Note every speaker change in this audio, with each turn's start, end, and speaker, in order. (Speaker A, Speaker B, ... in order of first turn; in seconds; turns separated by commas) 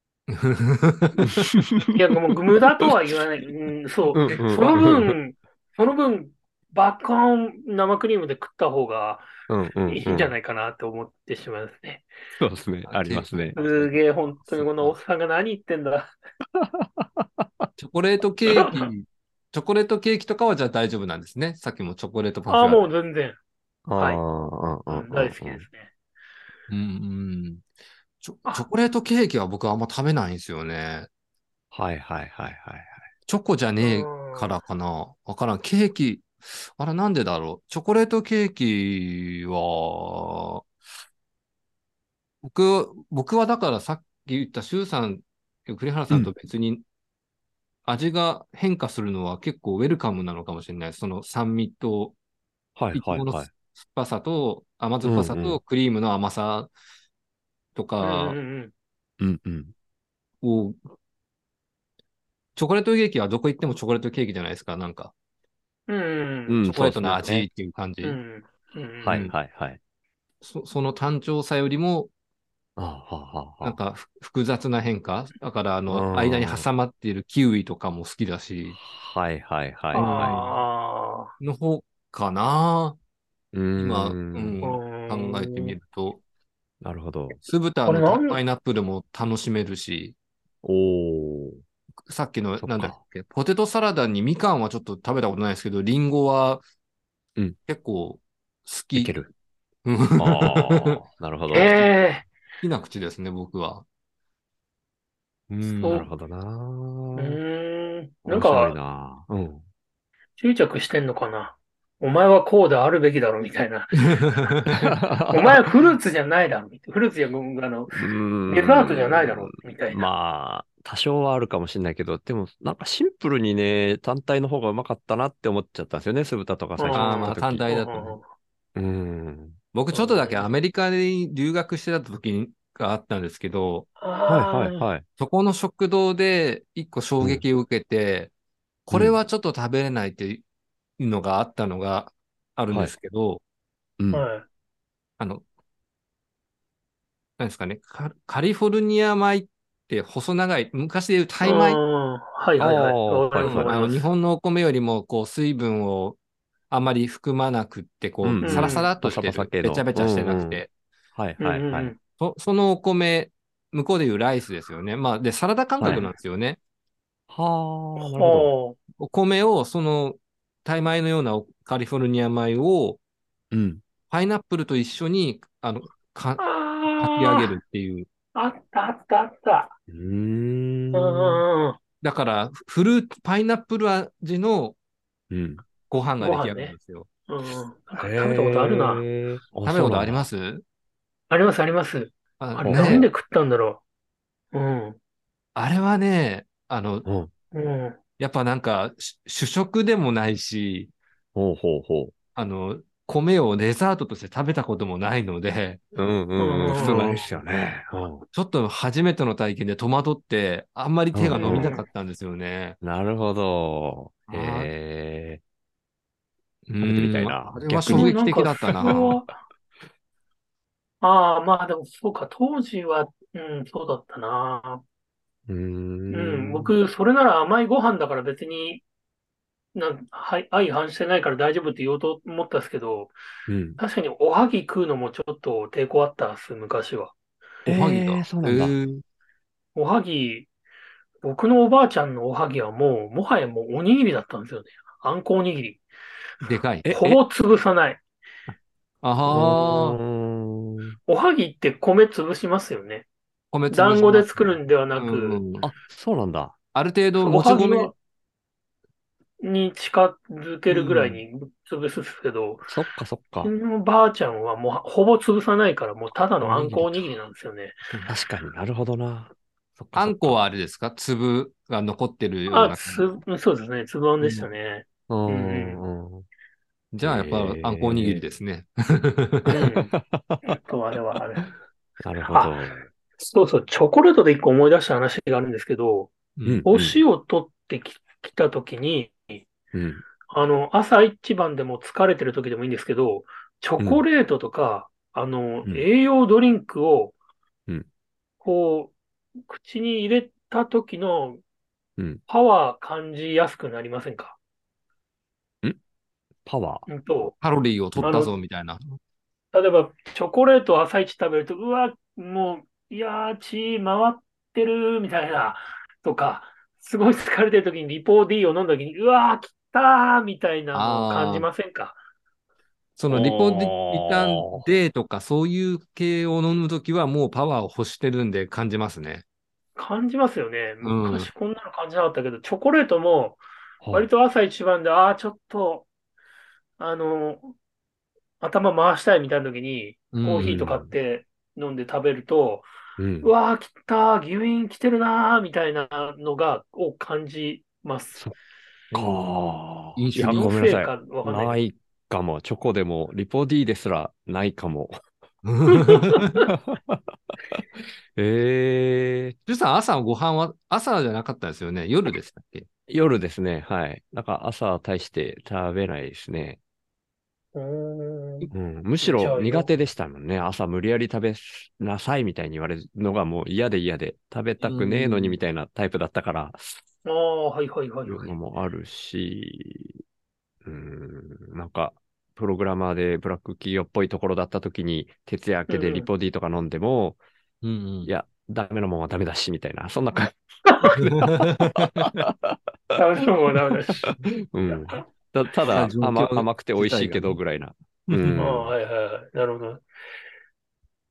Speaker A: 0.3-1.5, Speaker B: 1.5-1.8, Speaker C: 1.9-9.3, Speaker B: 4.2-5.2, Speaker A: 4.3-4.8, Speaker B: 9.5-10.3, Speaker C: 9.9-12.1, Speaker B: 12.4-13.6, Speaker A: 12.9-15.0, Speaker C: 13.6-16.1, Speaker B: 16.6-17.6, Speaker A: 17.8-22.9, Speaker C: 22.5-23.4, Speaker B: 23.9-25.7, Speaker C: 24.0-24.2, Speaker C: 24.9-25.9, Speaker A: 26.7-27.6, Speaker A: 28.2-31.1, Speaker B: 31.7-33.0, Speaker A: 33.3-40.6, Speaker C: 33.8-34.6, Speaker A: 42.4-46.8, Speaker A: 47.9-52.1, Speaker B: 52.8-53.5, Speaker A: 52.9-56.7, Speaker B: 55.0-55.6, Speaker A: 57.8-58.4, Speaker C: 58.0-58.7, Speaker B: 59.2-59.7, Speaker A: 60.4-60.8, Speaker A: 62.5-65.1, Speaker C: 65.9-66.7, Speaker B: 66.5-67.5, Speaker A: 66.7-68.2, Speaker C: 68.0-69.2, Speaker B: 69.0-69.8, Speaker A: 69.1-69.3, Speaker A: 70.4-72.1, Speaker B: 72.8-73.8, Speaker A: 73.6-78.8, Speaker B: 75.9-76.7, Speaker B: 78.7-80.5, Speaker A: 79.9-80.6, Speaker C: 79.9-81.3, Speaker A: 81.4-83.0, Speaker B: 83.5-84.6, Speaker A: 83.8-86.2, Speaker C: 84.6-85.8, Speaker B: 86.8-87.4, Speaker A: 87.4-90.2, Speaker C: 87.8-88.4, Speaker B: 90.6-91.6, Speaker A: 92.0-96.6, Speaker B: 92.6-93.0, Speaker A: 97.7-99.2, Speaker B: 99.0-99.3, Speaker A: 99.8-101.0, Speaker B: 100.2-101.8, Speaker C: 101.5-102.3, Speaker A: 101.5-101.9, Speaker A: 102.6-103.8, Speaker A: 105.5-106.1, Speaker C: 105.8-106.1, Speaker B: 105.8-107.4, Speaker C: 107.2-108.8, Speaker B: 108.3-109.6, Speaker C: 110.4-114.8, Speaker B: 114.8-115.7, Speaker C: 115.3-120.1, Speaker B: 117.9-127.7, Speaker C: 126.8-128.2, Speaker A: 126.9-128.2, Speaker B: 128.8-129.6, Speaker A: 129.7-133.9, Speaker C: 129.9-130.5, Speaker C: 134.0-134.8, Speaker B: 134.3-135.1, Speaker A: 135.2-138.3, Speaker A: 138.9-140.4, Speaker A: 141.0-143.4, Speaker C: 144.1-144.4, Speaker A: 147.4-151.8, Speaker C: 151.4-154.1, Speaker B: 152.6-153.8, Speaker A: 153.4-156.2, Speaker A: 156.7-160.7, Speaker B: 158.2-160.6, Speaker C: 158.4-158.9, Speaker B: 161.2-161.9, Speaker C: 161.4-162.0, Speaker A: 162.2-166.6, Speaker B: 165.8-166.1, Speaker B: 167.3-168.5, Speaker C: 168.0-168.8, Speaker A: 169.0-173.0, Speaker B: 173.5-173.8, Speaker A: 174.1-178.1, Speaker C: 176.4-177.4, Speaker C: 178.3-179.7, Speaker B: 179.9-181.4, Speaker C: 180.9-181.8, Speaker A: 182.0-184.8, Speaker B: 185.3-185.6, Speaker A: 185.9-187.1, Speaker C: 186.2-186.8, Speaker C: 187.3-189.0, Speaker B: 188.0-190.2, Speaker A: 189.6-190.6, Speaker C: 191.3-193.8, Speaker A: 192.4-193.1, Speaker B: 192.6-193.1, Speaker C: 194.5-195.0, Speaker A: 195.6-197.1, Speaker B: 197.1-197.3, Speaker C: 197.5-198.0, Speaker A: 198.2-200.9, Speaker B: 201.3-202.1, Speaker A: 202.3-205.8, Speaker B: 205.9-208.2, Speaker C: 206.4-207.2, Speaker A: 206.7-207.3, Speaker A: 208.3-212.8, Speaker B: 211.1-211.7, Speaker C: 211.3-211.9, Speaker B: 212.8-215.4, Speaker A: 214.3-214.7, Speaker A: 216.7-219.2, Speaker B: 216.8-218.2, Speaker C: 217.9-219.4, Speaker B: 218.8-219.2, Speaker C: 221.0-224.8, Speaker B: 225.5-226.7, Speaker C: 226.1-228.8, Speaker C: 229.8-233.1, Speaker B: 233.5-233.8, Speaker C: 233.8-237.1, Speaker B: 237.7-238.8, Speaker A: 237.7-239.0, Speaker C: 239.8-240.5, Speaker C: 241.2-245.8, Speaker A: 246.4-247.2, Speaker C: 246.9-248.0, Speaker A: 249.0-250.0, Speaker B: 249.3-251.0, Speaker C: 251.1-253.1, Speaker A: 253.5-255.7, Speaker C: 253.7-255.4, Speaker B: 255.6-256.6, Speaker A: 256.7-257.9, Speaker C: 257.2-257.9, Speaker C: 259.4-262.7, Speaker A: 260.7-261.2, Speaker B: 262.7-263.5, Speaker C: 263.4-267.8, Speaker A: 266.4-266.8, Speaker B: 266.4-266.9, Speaker B: 268.1-270.4, Speaker A: 269.9-273.1, Speaker C: 272.5-275.8, Speaker A: 274.2-274.5, Speaker B: 275.1-276.3, Speaker A: 276.9-279.7, Speaker B: 277.0-278.2, Speaker B: 279.5-280.4, Speaker C: 279.6-281.5, Speaker B: 282.0-282.9, Speaker C: 282.3-282.6, Speaker C: 283.2-286.1, Speaker A: 286.4-286.7, Speaker B: 286.4-287.0, Speaker C: 286.6-289.4, Speaker B: 289.7-290.0, Speaker C: 290.3-297.1, Speaker C: 298.4-301.4, Speaker C: 302.3-304.4, Speaker B: 306.5-306.9, Speaker C: 306.9-307.4, Speaker A: 307.4-308.8, Speaker C: 308.0-308.3, Speaker C: 309.5-322.0, Speaker A: 320.7-321.5, Speaker A: 323.0-329.2, Speaker B: 323.1-324.6, Speaker C: 329.8-333.4, Speaker A: 330.8-331.3, Speaker B: 333.8-334.1, Speaker C: 333.9-335.9, Speaker C: 336.8-337.6, Speaker C: 338.4-342.6, Speaker A: 340.1-340.6, Speaker B: 340.4-340.9, Speaker B: 343.0-343.3, Speaker C: 343.2-348.2, Speaker A: 348.9-349.3, Speaker B: 348.9-355.0, Speaker A: 350.0-350.6, Speaker C: 350.2-351.6, Speaker A: 355.4-356.4, Speaker C: 355.7-356.4, Speaker B: 356.5-357.6, Speaker B: 358.2-359.4, Speaker A: 359.5-362.7, Speaker B: 362.9-366.6, Speaker C: 367.6-369.7, Speaker B: 368.5-376.8, Speaker A: 374.6-375.4, Speaker C: 377.1-378.4, Speaker B: 378.1-380.0, Speaker B: 380.6-387.2, Speaker C: 385.7-386.1, Speaker A: 387.6-388.1, Speaker B: 388.1-392.6, Speaker A: 391.0-392.1, Speaker C: 392.9-394.1, Speaker B: 394.1-398.7, Speaker A: 395.7-397.4, Speaker A: 398.1-398.6, Speaker C: 398.4-399.8